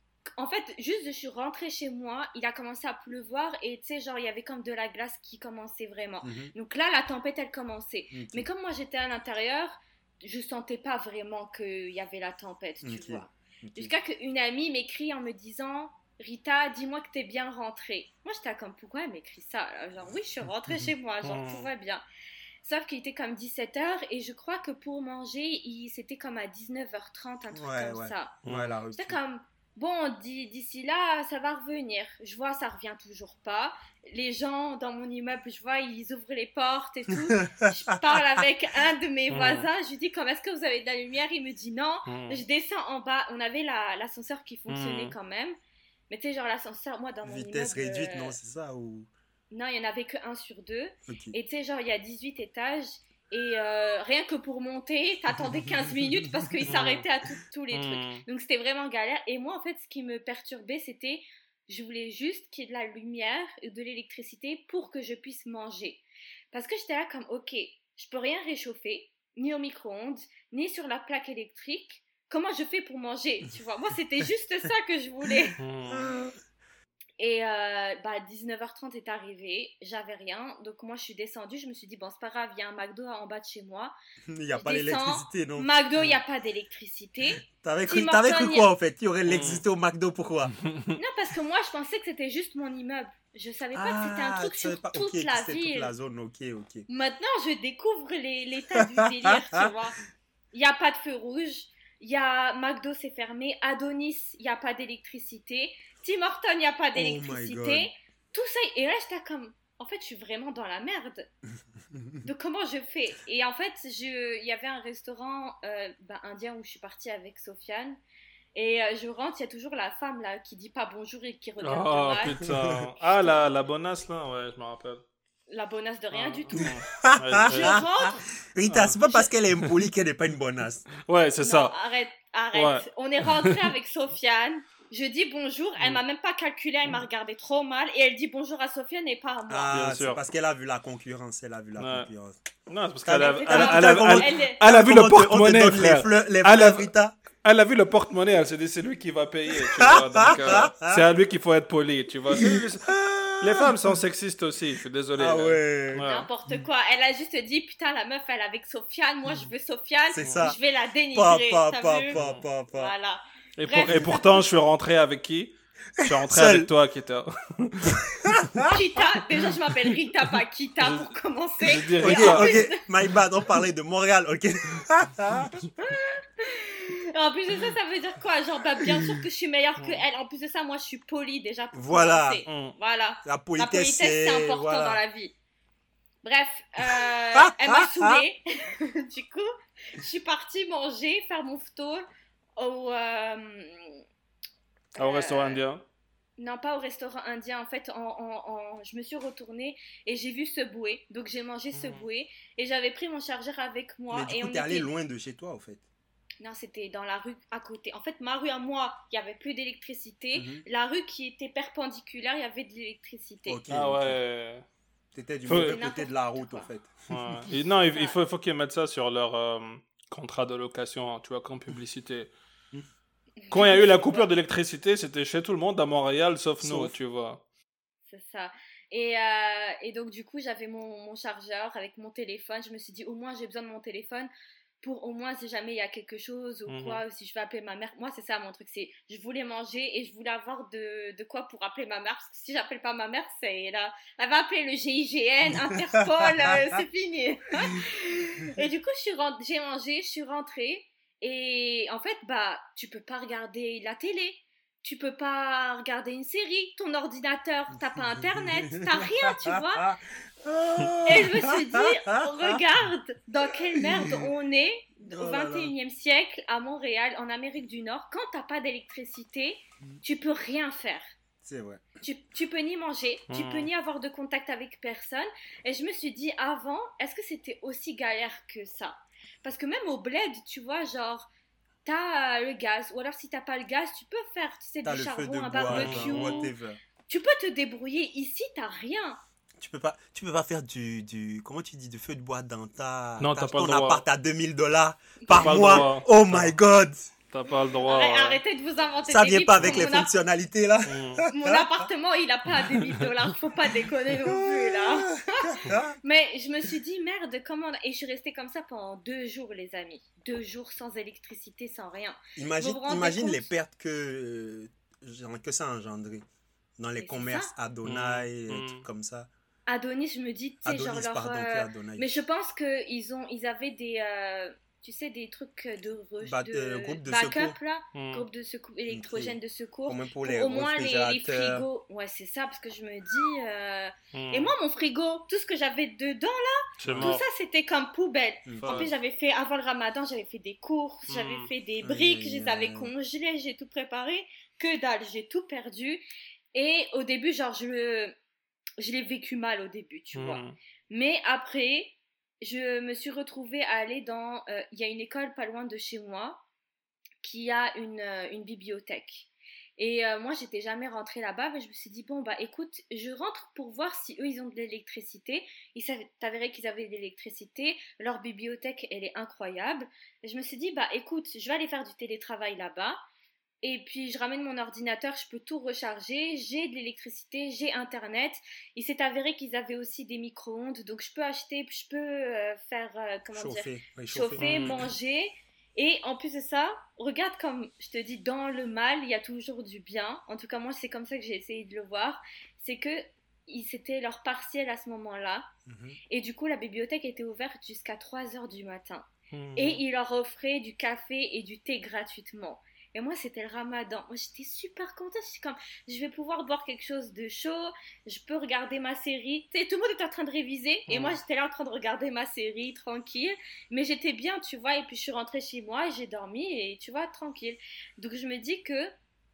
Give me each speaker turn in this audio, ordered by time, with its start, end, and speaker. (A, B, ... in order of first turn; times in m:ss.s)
0:00.4-0:22.0 A
0:06.2-0:06.5 B
0:08.1-0:08.5 B
0:12.8-0:13.9 B
0:21.2-0:21.7 C
0:22.6-0:28.4 A
0:27.5-0:29.2 B
0:28.5-0:28.7 C
0:28.9-0:45.6 A
0:37.3-0:38.2 B
0:39.3-0:39.7 C
0:42.1-0:42.4 C
0:44.7-0:45.1 C
0:46.1-0:48.4 A
0:47.2-0:49.1 B
0:49.5-1:15.6 A
0:51.1-0:51.4 B
0:55.4-0:55.7 B
0:56.6-0:56.9 B
0:56.7-0:57.0 C
0:57.7-0:58.2 C
1:15.6-1:16.2 C
1:15.9-1:16.4 B
1:17.2-1:23.9 A
1:24.3-1:25.7 B
1:24.6-1:28.7 A
1:27.6-1:30.6 B
1:29.3-1:29.6 C
1:31.0-1:35.9 A
1:33.8-1:36.9 B
1:36.9-1:40.0 A
1:39.2-1:39.7 B
1:40.5-1:51.3 A
1:47.0-1:47.9 B
1:51.9-1:52.2 B
1:52.2-1:58.0 A
1:58.6-2:02.4 A
2:01.6-2:05.0 C
2:02.4-2:02.8 B
2:05.5-2:06.8 A
2:06.1-2:07.9 C
2:06.6-2:07.8 B
2:07.5-2:08.2 A
2:08.5-2:10.9 B
2:08.7-2:09.0 C
2:11.0-2:11.7 C
2:11.4-2:19.8 A
2:12.5-2:13.6 C
2:19.5-2:22.4 B
2:19.7-2:20.2 C
2:21.8-2:22.1 C
2:22.7-2:26.9 C
2:23.0-2:27.1 B
2:23.1-2:24.6 A
2:27.4-2:36.3 C
2:29.6-2:31.0 B
2:32.3-2:34.0 B
2:35.1-2:36.7 B
2:36.0-2:42.2 A
2:40.1-2:40.6 B
2:41.1-2:42.9 B
2:42.1-2:42.4 C
2:42.7-2:44.4 A
2:43.6-2:48.0 C
2:46.0-2:46.7 B
2:48.2-2:48.8 B
2:48.6-2:52.8 A
2:50.8-2:52.5 C
2:52.0-2:55.7 B
2:55.8-3:05.4 A
3:01.7-3:02.4 B
3:02.5-3:02.8 C
3:03.2-3:05.0 B
3:06.2-3:12.0 A
3:06.8-3:08.2 B
3:12.6-3:14.0 A
3:15.0-3:15.6 A
3:15.0-3:15.8 C
3:16.4-3:24.9 A
3:21.7-3:22.1 C
3:24.1-3:25.8 B
3:26.4-3:33.6 A
3:30.4-3:30.6 B
3:33.5-3:34.2 B
3:33.7-3:34.6 C
3:35.1-3:37.4 B
3:35.5-3:35.8 C
3:35.5-3:36.7 A
3:37.1-3:42.3 C
3:37.9-3:38.2 A
3:43.4-3:44.3 A
3:43.5-3:47.4 C
3:46.6-3:46.9 B
3:48.1-3:54.3 A
3:54.8-4:19.9 A
3:56.7-3:57.0 C
4:18.2-4:22.6 B
4:21.0-4:31.1 A
4:23.8-4:24.3 B
4:25.1-4:25.7 B
4:31.4-4:31.8 B
4:32.0-4:41.3 A
4:33.3-4:33.7 C
4:41.8-4:46.5 A
4:44.8-4:46.8 B
4:45.7-4:46.4 C
4:47.1-4:49.2 A
4:49.6-4:57.1 B
4:53.2-4:54.0 C
4:55.2-4:55.8 A
4:55.3-4:56.6 C
4:57.3-4:58.4 C
4:57.8-5:00.1 A
4:59.1-5:01.7 B
5:00.9-5:01.2 C
5:01.3-5:13.5 A
5:04.3-5:06.0 B
5:12.4-5:16.2 B
5:16.8-5:19.3 B
5:17.0-5:17.5 A
5:17.8-5:18.8 C
5:19.7-5:48.1 A
5:20.6-5:22.1 B
5:26.2-5:27.6 B
5:27.9-5:28.2 C
5:28.9-5:31.7 B
5:34.1-5:34.5 C
5:36.8-5:37.2 C
5:36.8-5:37.2 B
5:38.4-5:38.9 B
5:38.6-5:38.9 C
5:41.1-5:41.5 C
5:41.8-5:42.9 B
5:48.8-5:56.4 A
5:50.2-5:50.6 C
5:57.2-6:13.0 A
6:13.6-6:35.5 A
6:23.3-6:24.8 B
6:24.4-6:24.8 C
6:35.7-6:36.0 B
6:36.1-6:58.9 A
6:39.3-6:39.8 C
6:50.9-6:51.2 C